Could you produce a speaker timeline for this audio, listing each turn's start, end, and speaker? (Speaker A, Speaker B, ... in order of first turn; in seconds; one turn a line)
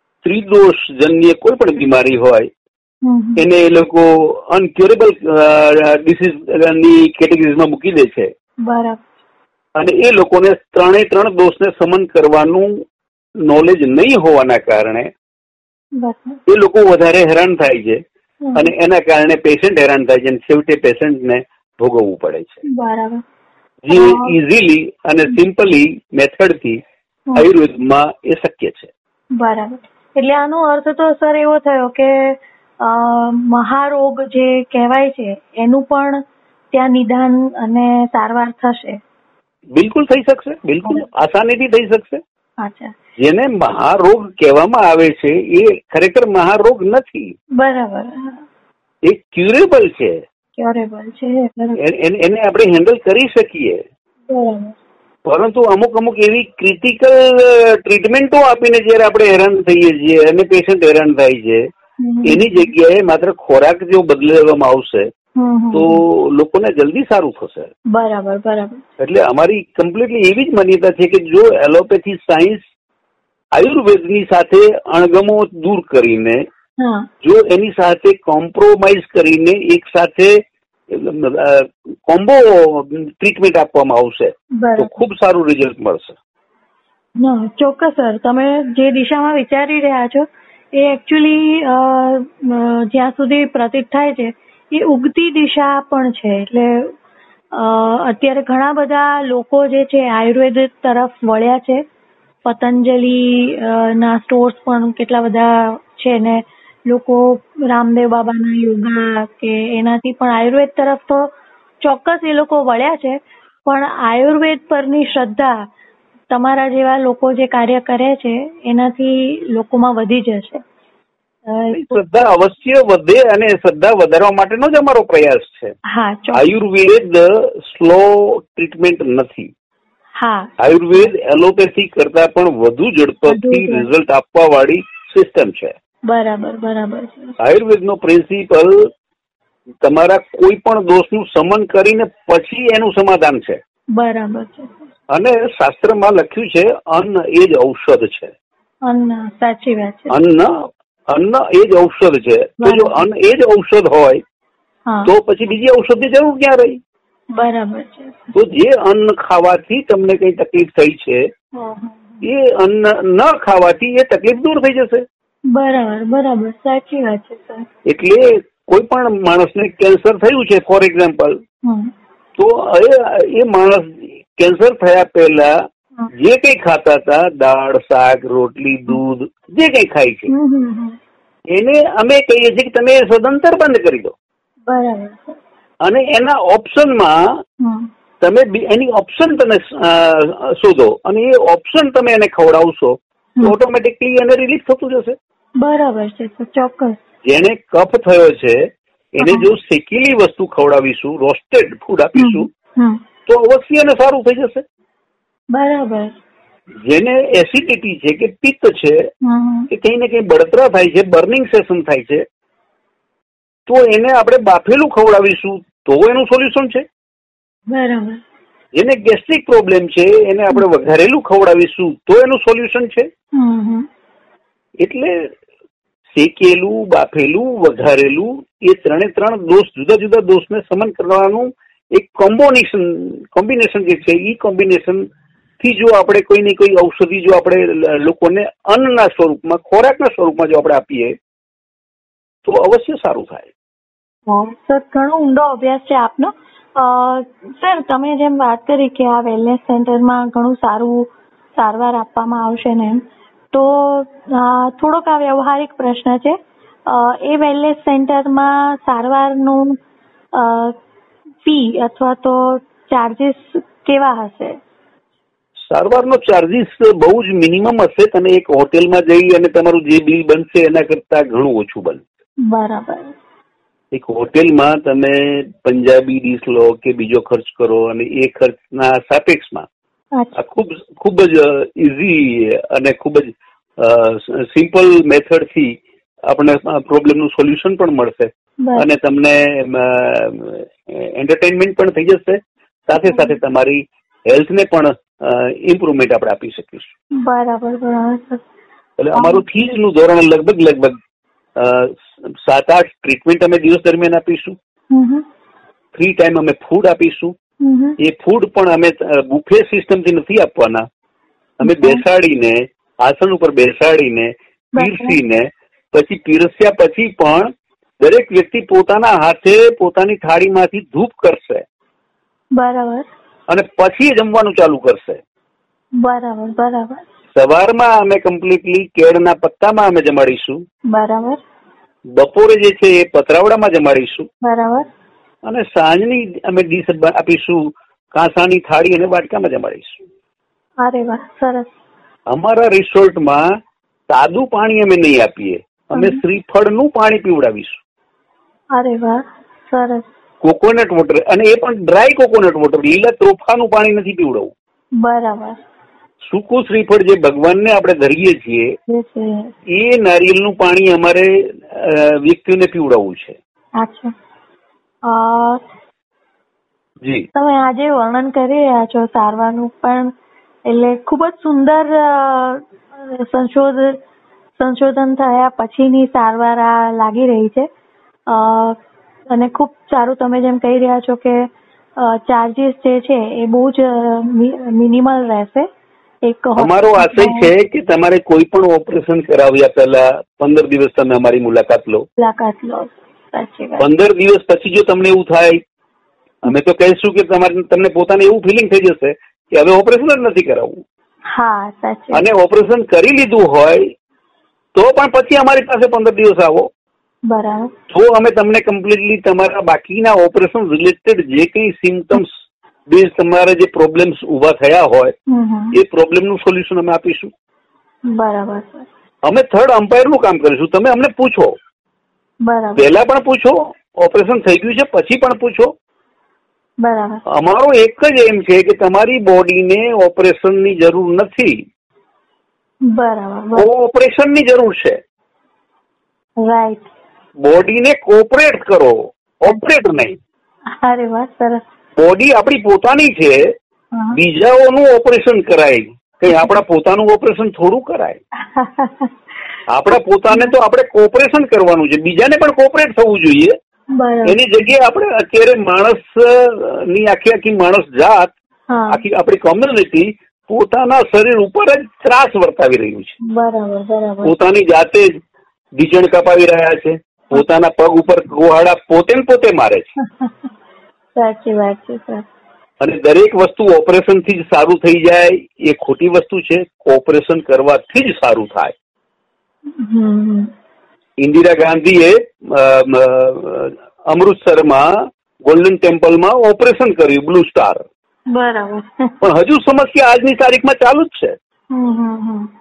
Speaker A: 0.2-2.5
Speaker B: 3.0-3.4
Speaker A: 3.4-8.3
Speaker B: 8.6-9.0
Speaker A: 9.8-12.8
Speaker A: 13.4-15.1
Speaker B: 16.0-16.4
Speaker A: 16.5-18.0
Speaker B: 18.4-18.7
Speaker A: 18.5-22.6
Speaker B: 22.6-23.2
Speaker A: 23.8-26.8
Speaker B: 23.9-24.4
Speaker A: 27.4-28.9
Speaker B: 29.4-36.2
Speaker B: 36.7-39.0
Speaker A: 39.7-42.2
Speaker B: 42.6-42.9
Speaker A: 43.2-47.3
Speaker B: 47.6-48.4
Speaker A: 49.0-50.2
Speaker B: 50.6-51.8
Speaker A: 51.8-53.8
Speaker B: 54.3-54.8
Speaker A: 55.2-61.7
Speaker B: 62.0-62.7
Speaker A: 62.2-65.1
Speaker B: 65.4-66.0
Speaker A: 65.7-67.7
Speaker B: 67.9-68.8
Speaker A: 69.0-72.6
Speaker A: 73.5-76.4
Speaker B: 76.8-77.1
Speaker A: 77.2-86.2
Speaker B: 84.5-84.9
Speaker B: 87.2-96.9
Speaker B: 97.5-101.8
Speaker B: 102.4-115.6
Speaker B: 116.3-120.6
Speaker B: 121.5-122.0
Speaker A: 121.7-125.8
Speaker B: 125.9-126.4
Speaker A: 126.3-129.5
Speaker B: 130.2-131.1
Speaker A: 130.6-135.7
Speaker B: 133.3-133.9
Speaker B: 136.1-137.4
Speaker A: 137.4-138.9
Speaker A: 139.8-143.6
Speaker B: 143.9-144.8
Speaker A: 145.1-148.3
Speaker B: 148.8-150.2
Speaker A: 150.1-154.2
Speaker B: 152.6-153.0
Speaker A: 155.0-156.8
Speaker B: 157.3-158.3
Speaker A: 158.3-161.2
Speaker B: 161.5-162.2
Speaker A: 162.2-165.0
Speaker B: 165.5-167.7
Speaker A: 167.8-171.4
Speaker B: 171.6-171.9
Speaker A: 172.4-180.3
Speaker B: 180.3-181.0
Speaker A: 181.5-184.1
Speaker B: 184.7-185.4
Speaker A: 185.8-187.4
Speaker B: 187.6-187.9
Speaker A: 188.2-195.2
Speaker B: 195.6-197.0
Speaker A: 197.2-202.5
Speaker B: 199.2-199.5
Speaker B: 202.2-203.0
Speaker A: 203.2-204.6
Speaker B: 205.5-206.1
Speaker A: 206.8-209.1
Speaker B: 209.2-209.7
Speaker A: 209.7-212.2
Speaker A: 213.7-216.8
Speaker B: 217.7-218.2
Speaker A: 218.7-223.1
Speaker B: 223.3-223.9
Speaker A: 224.8-225.3
Speaker A: 226.1-235.1
Speaker A: 235.6-241.2
Speaker A: 242.4-243.5
Speaker B: 244.3-259.8
Speaker B: 260.3-260.8
Speaker B: 261.4-264.6
Speaker A: 265.7-272.0
Speaker B: 272.4-273.1
Speaker A: 273.9-279.7
Speaker A: 280.4-296.9
Speaker B: 293.0-293.3
Speaker B: 297.1-298.4
Speaker A: 299.0-301.0
Speaker B: 299.1-299.4
Speaker A: 301.6-304.6
Speaker B: 304.9-305.2
Speaker A: 305.9-307.3
Speaker B: 307.6-308.0
Speaker A: 308.0-310.9
Speaker A: 311.6-321.6
Speaker B: 311.6-312.0
Speaker B: 314.7-315.2
Speaker B: 322.5-323.1
Speaker A: 323.5-325.2
Speaker B: 326.0-327.0
Speaker A: 327.3-330.6
Speaker B: 330.9-331.4
Speaker A: 332.1-334.3
Speaker B: 334.4-334.9
Speaker A: 335.4-340.0
Speaker B: 340.8-341.7
Speaker A: 342.3-343.4
Speaker A: 344.1-347.8
Speaker B: 345.9-346.2
Speaker B: 348.7-350.1
Speaker A: 350.4-354.5
Speaker B: 355.0-355.6
Speaker A: 356.2-358.7
Speaker B: 358.9-359.5
Speaker A: 359.7-363.4
Speaker B: 363.8-364.1
Speaker B: 365.1-365.6
Speaker A: 367.0-367.3
Speaker B: 367.3-370.1
Speaker B: 370.7-374.0
Speaker B: 374.6-377.7
Speaker B: 378.3-378.8
Speaker B: 379.3-385.7
Speaker B: 386.2-387.5
Speaker A: 386.6-392.1
Speaker B: 392.2-393.9
Speaker A: 393.8-395.6
Speaker A: 396.4-400.8
Speaker B: 401.3-402.2
Speaker A: 402.1-403.9
Speaker A: 404.7-406.7
Speaker B: 407.2-407.7
Speaker A: 407.9-412.3
Speaker A: 412.9-415.1
Speaker B: 415.3-415.8
Speaker A: 415.7-417.3
Speaker B: 418.0-418.9
Speaker A: 419.2-421.6
Speaker B: 422.4-422.9
Speaker A: 422.8-425.7
Speaker B: 426.8-427.2
Speaker A: 427.2-431.6
Speaker B: 432.9-433.7
Speaker A: 433.6-435.0
Speaker B: 436.4-436.9
Speaker A: 437.4-440.2
Speaker B: 440.7-441.6
Speaker A: 441.9-443.5
Speaker B: 443.9-444.2
Speaker A: 444.1-448.2
Speaker B: 446.3-446.6
Speaker B: 448.4-449.1
Speaker A: 449.7-453.5
Speaker B: 453.9-454.4
Speaker A: 454.2-458.3
Speaker B: 458.7-459.0
Speaker A: 458.9-463.1
Speaker B: 463.2-464.3
Speaker A: 464.2-465.2
Speaker A: 465.8-469.9
Speaker B: 470.0-470.5
Speaker B: 471.1-472.2
Speaker A: 472.8-478.7
Speaker B: 479.7-480.5
Speaker A: 481.2-487.9
Speaker B: 488.3-489.1
Speaker A: 489.2-491.4
Speaker B: 491.7-492.5